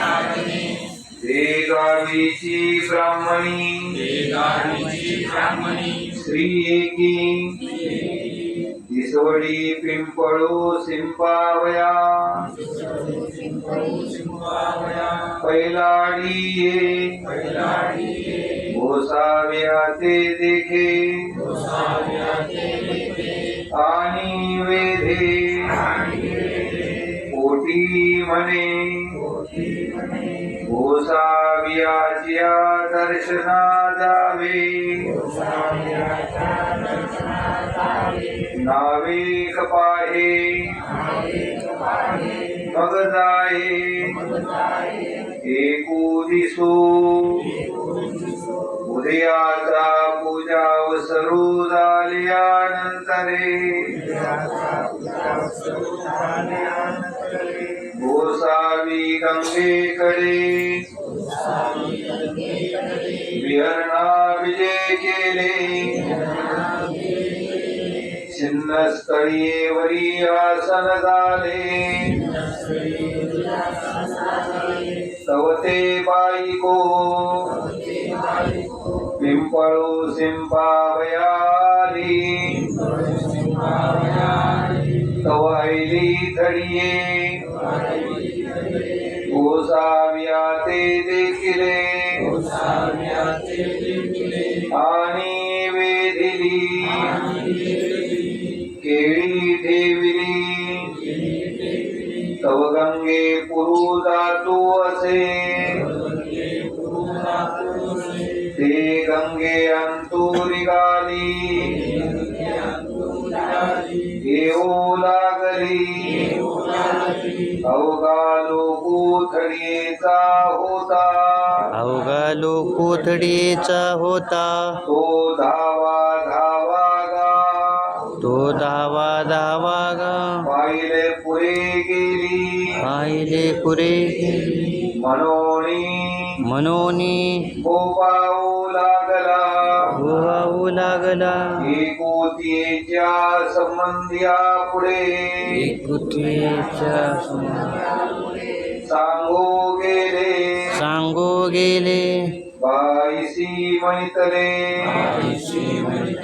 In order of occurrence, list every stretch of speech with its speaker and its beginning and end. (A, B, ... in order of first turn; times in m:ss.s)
0:01.1-0:04.4 A
0:06.0-0:07.9 A
0:08.6-0:12.6 A
0:15.3-0:17.6 A
0:18.6-0:21.6 A
0:23.8-0:26.0 A
0:27.2-0:29.3 A
0:30.5-0:35.3 A
0:38.5-0:40.9 A
0:42.6-0:44.3 A
0:45.3-0:47.6 A
0:48.7-0:54.3 A
0:57.8-1:00.9 A
1:03.2-1:06.2 A
1:08.1-1:12.4 A
1:15.1-1:17.7 A
1:19.1-1:22.9 A
1:25.1-1:27.6 A
1:29.2-1:32.5 A
1:34.7-1:37.4 A
1:38.7-1:41.0 A
1:42.4-1:45.9 A
1:48.5-1:52.0 A
1:54.2-1:56.5 A
1:57.5-2:01.7 A
2:01.8-2:04.8 B
2:04.8-2:08.1 A
2:08.2-2:10.4 B
2:10.4-2:12.8 A
2:12.8-2:14.5 B
2:14.9-2:16.4 A
2:16.5-2:17.5 B
2:17.6-2:20.0 A
2:20.0-2:21.5 B
2:21.6-2:25.6 A
2:25.5-2:27.9 B
2:28.8-2:30.8 A
2:30.7-2:32.4 B
2:32.6-2:35.2 A
2:35.2-2:35.8 B